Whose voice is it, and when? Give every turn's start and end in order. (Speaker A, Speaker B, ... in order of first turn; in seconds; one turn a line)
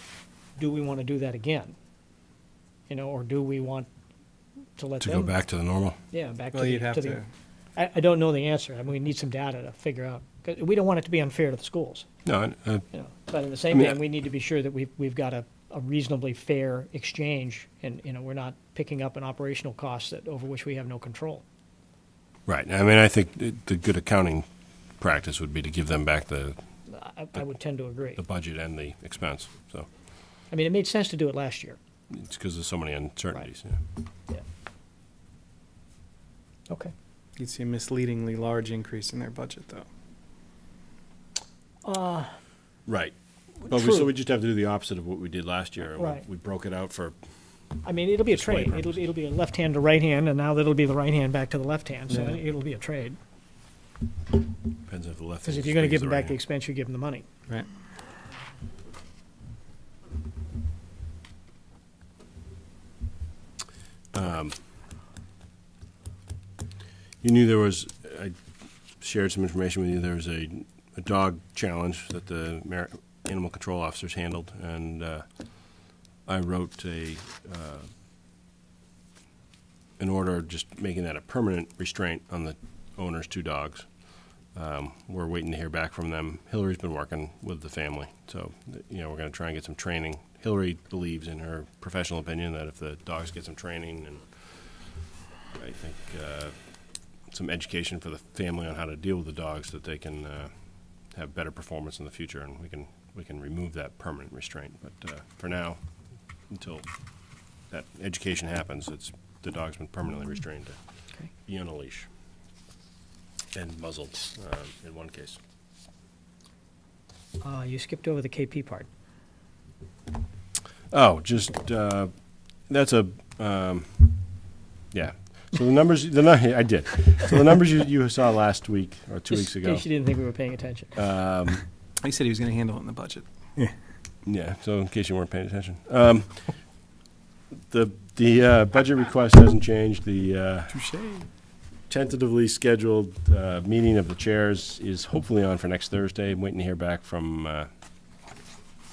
Speaker A: 0.6-1.8
Speaker A: 2.9-3.9
Speaker A: 4.8-5.3
Speaker B: 5.0-6.0
Speaker A: 6.1-7.2
Speaker C: 6.5-7.2
Speaker A: 7.8-12.1
Speaker B: 12.2-12.8
Speaker A: 12.9-21.4
Speaker B: 13.7-14.0
Speaker B: 22.5-24.5
Speaker B: 25.0-26.6
Speaker A: 26.9-28.2
Speaker B: 28.1-29.9
Speaker A: 30.5-31.8
Speaker B: 32.1-33.8
Speaker C: 37.4-39.9
Speaker A: 41.8-42.3
Speaker B: 42.9-43.1
Speaker A: 43.7-44.1
Speaker B: 43.7-47.2
Speaker A: 46.0-46.2
Speaker A: 47.8-53.2
Speaker B: 48.3-49.0
Speaker C: 52.1-52.4
Speaker B: 54.9-56.4
Speaker A: 55.4-57.2
Speaker B: 64.1-64.5
Speaker B: 67.2-68.3
Speaker B: 69.0-77.9
Speaker B: 80.0-83.9
Speaker B: 84.5-95.0
Speaker B: 95.5-100.5
Speaker B: 101.1-105.8
Speaker B: 106.5-106.8
Speaker B: 107.7-110.8
Speaker B: 111.4-112.1
Speaker B: 113.5-115.4
Speaker A: 117.4-118.9
Speaker B: 120.9-122.1
Speaker B: 122.7-124.3
Speaker B: 124.9-130.0
Speaker A: 129.3-130.9
Speaker B: 130.9-131.6
Speaker C: 132.0-133.2
Speaker B: 134.2-136.8
Speaker B: 137.7-140.8
Speaker C: 140.7-141.3
Speaker B: 141.9-147.7